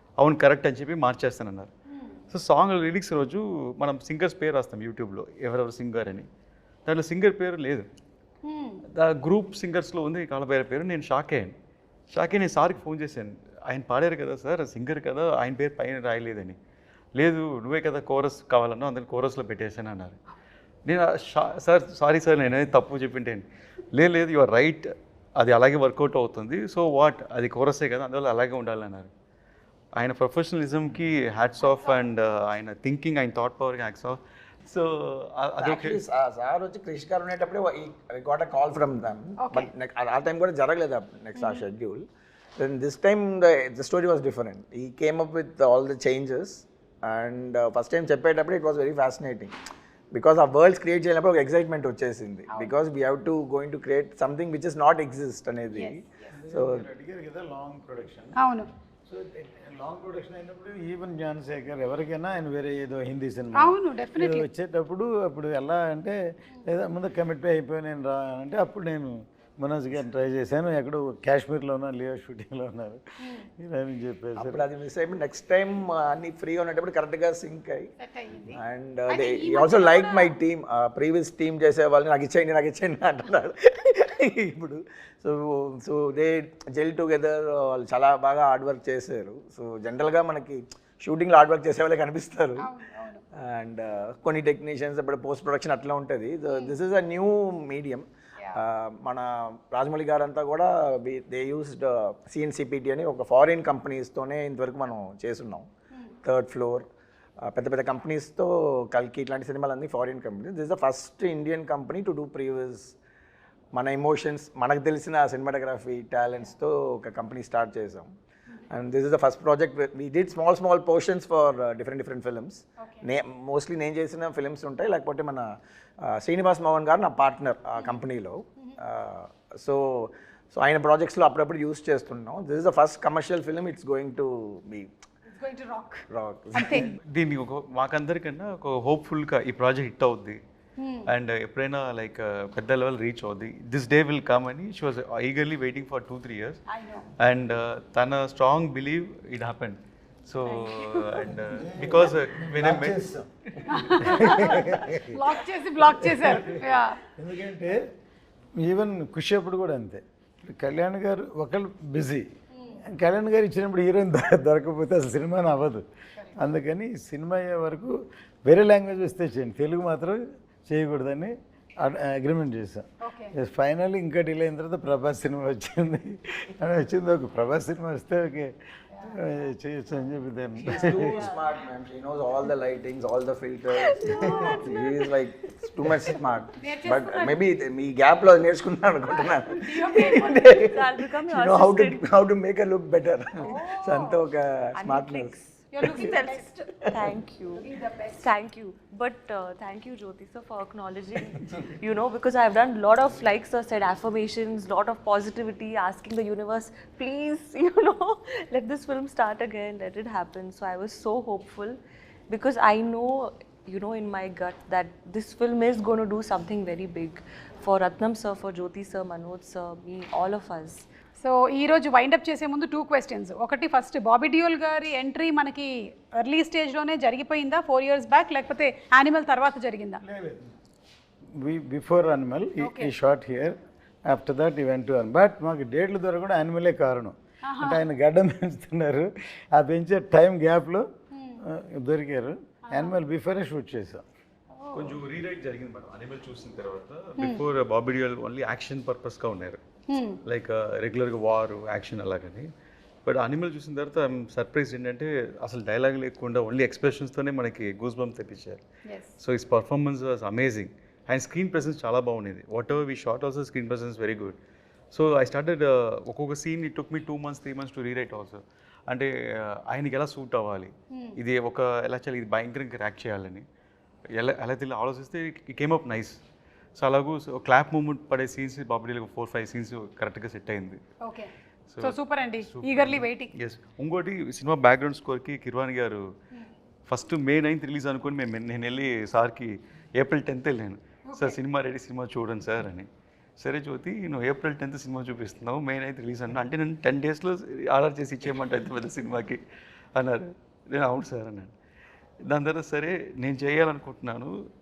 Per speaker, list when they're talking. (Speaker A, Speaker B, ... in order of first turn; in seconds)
Speaker A: 0.2-1.7, 2.3-6.3, 6.8-7.9, 8.9-11.6, 12.1-16.6, 17.1-20.2, 20.9-29.1, 29.9-36.0, 136.7-140.4, 141.1-146.6, 147.2-153.0, 244.7-249.6, 250.2-252.5, 253.0-258.6, 259.2-264.4, 264.9-273.4, 274.1-276.2, 276.8-280.8, 281.7-286.0, 286.9-299.4, 299.9-301.5, 302.3-304.4
Speaker B: 1.9-2.1, 8.4-8.8, 31.6-32.0, 39.4-39.7, 41.4-41.6, 52.5-52.7, 55.8-56.2, 58.4-58.7, 63.5-64.5, 78.0-80.3, 92.6-93.2, 96.5-96.8, 122.8-123.1, 135.3-136.9, 140.8-141.1, 146.7-147.1, 153.7-157.0, 162.5-162.8, 173.0-173.3, 184.1-184.7, 186.6-187.4, 189.1-190.6, 193.4-194.2, 195.7-196.7, 197.6-198.2, 221.2-230.0, 232.6-232.9, 237.4-237.8, 241.1-241.4, 242.7-242.9, 244.6-245.0, 247.2-247.4, 249.9-250.2, 258.9-259.2, 270.9-271.2, 281.0-283.3, 291.1-291.4
Speaker C: 35.6-42.0, 42.6-49.5, 50.1-56.9, 74.3-77.9, 78.5-92.7, 93.3-98.0, 98.6-105.7, 106.2-106.9, 107.4-113.0, 113.7-118.1, 118.7-134.9, 136.1-136.9, 180.6-196.1
Speaker D: 56.3-58.4, 59.1-74.6, 151.4-155.2, 156.0-157.8, 158.6-162.3, 162.8-165.8, 166.3-181.2, 230.0-230.5, 231.3-240.9, 241.4-244.0
Speaker E: 150.6-151.2, 180.7-181.4, 183.7-185.1, 190.3-192.0, 194.7-220.8